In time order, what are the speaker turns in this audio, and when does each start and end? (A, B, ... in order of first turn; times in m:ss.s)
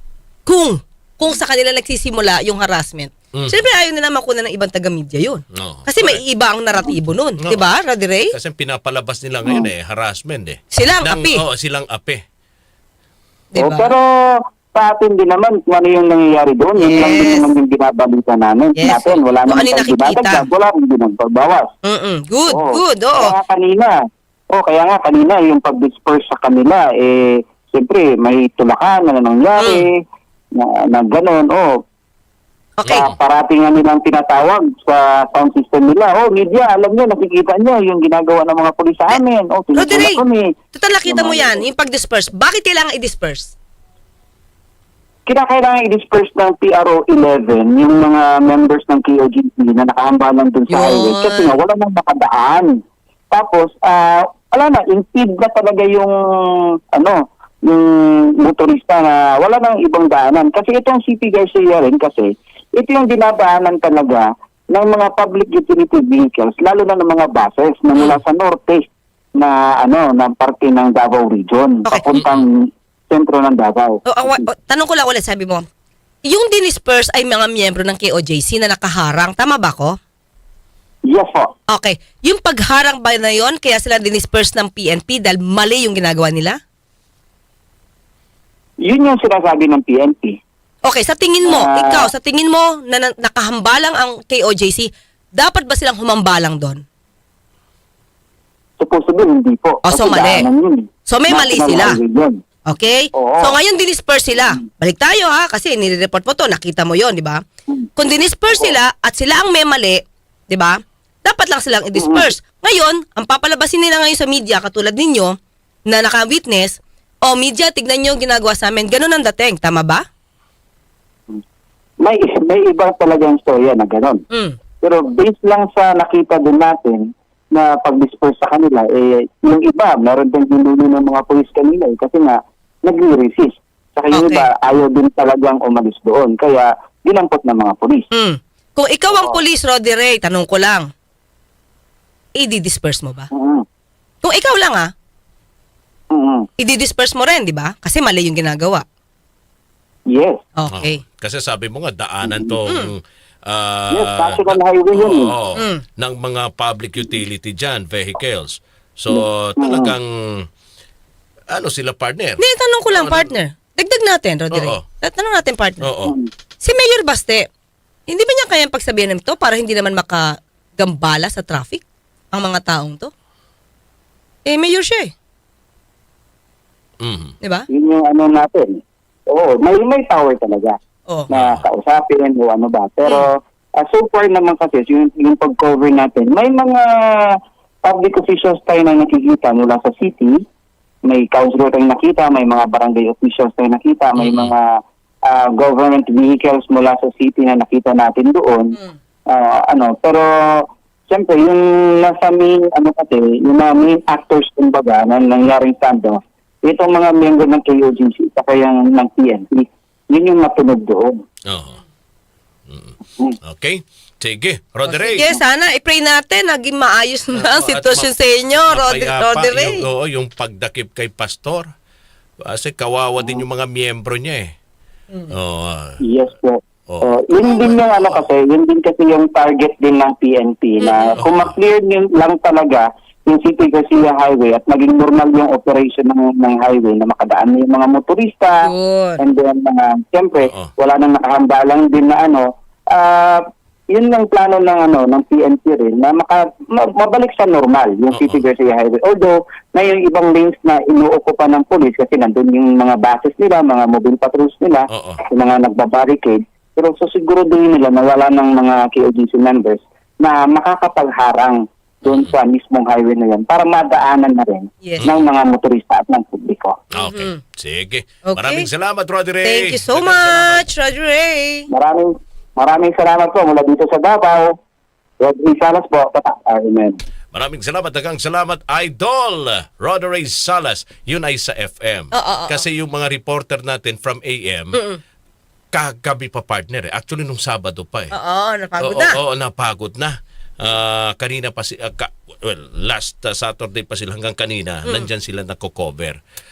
0:00.5-0:08.3 A
0:03.3-0:03.6 B
0:05.6-0:06.2 B
0:07.4-0:07.7 B
0:08.3-0:12.2 B
0:09.4-0:09.7 C
0:10.7-0:11.4 A
0:13.5-0:13.9 A
0:13.6-0:14.0 C
0:14.7-0:21.7 C
0:16.8-0:17.5 A
0:18.8-0:20.5 A
0:21.9-0:23.3 A
0:22.5-0:23.9 C
0:24.5-0:29.9 C
0:29.6-0:29.8 A
0:30.6-0:31.7 C
0:32.8-0:33.1 A
0:32.9-0:33.1 B
0:32.9-0:40.5 C
0:39.7-0:40.2 A
0:40.8-0:43.5 A
0:41.0-0:41.6 C
0:45.3-0:52.8 C
0:50.7-0:51.6 A
0:53.3-0:56.1 C
0:56.9-1:08.8 C
1:09.4-1:14.5 C
1:12.1-1:12.4 B
1:14.0-1:15.6 A
1:16.2-1:20.0 A
1:21.1-1:21.5 C
1:21.7-1:26.6 A
1:28.8-1:30.4 C
1:30.8-1:36.8 A
1:31.4-1:32.1 C
1:38.8-1:42.4 C
1:39.9-1:40.4 A
1:41.1-1:42.0 A
1:42.7-1:47.4 A
1:43.1-1:43.6 C
1:48.0-1:55.4 A
1:48.5-1:48.8 C
1:51.9-1:52.3 C
1:55.9-2:00.0 A
2:02.0-2:04.2 C
2:04.8-2:18.0 C
2:14.1-2:14.5 A
2:18.1-2:20.9 A
2:19.1-2:19.4 C
2:22.4-2:23.3 A
2:23.3-2:23.6 C
2:24.2-2:24.9 A
2:26.1-2:26.5 C
2:26.6-2:28.8 A
2:30.1-2:30.4 C
2:30.6-2:31.0 A
2:30.7-2:40.5 B
2:32.2-2:32.6 C
2:33.9-2:35.3 C
2:35.6-2:35.8 A
2:39.1-2:39.9 C
2:41.5-2:43.3 B
2:42.4-2:45.9 A
2:44.5-2:44.8 B
2:45.8-2:46.1 B
2:46.6-2:47.5 A
2:48.1-2:50.2 A
2:50.8-2:53.1 A
2:54.5-2:55.1 A
2:57.0-2:57.3 B
2:57.7-2:58.8 C
2:59.3-3:00.8 C
3:01.3-3:10.3 C
3:01.3-3:01.6 B
3:11.0-3:14.7 C
3:14.2-3:14.5 B
3:15.3-3:18.7 C
3:19.3-3:31.2 C
3:31.5-3:31.8 B
3:32.7-3:35.4 B
3:34.9-3:39.8 A
3:37.3-3:38.1 B
3:38.7-3:41.7 B
3:42.5-3:44.5 B
3:43.2-3:43.4 C
3:45.3-3:46.0 B
3:46.0-3:58.6 C
3:46.9-3:48.2 B
3:50.8-3:51.2 A
3:51.2-3:51.5 B
3:58.7-3:59.2 A
3:59.2-4:26.8 C
4:00.4-4:00.7 B
4:08.1-4:08.4 B
4:14.9-4:15.2 B
4:27.0-4:30.6 B
4:27.0-4:27.4 A
4:28.2-4:28.7 A
4:29.4-4:31.7 A
4:31.7-4:34.5 C
4:35.2-4:37.0 C
4:37.3-4:44.8 B
4:42.1-4:42.6 A
4:44.7-4:45.0 A
4:45.7-4:48.1 B
4:48.1-4:49.2 A
4:48.8-4:56.2 B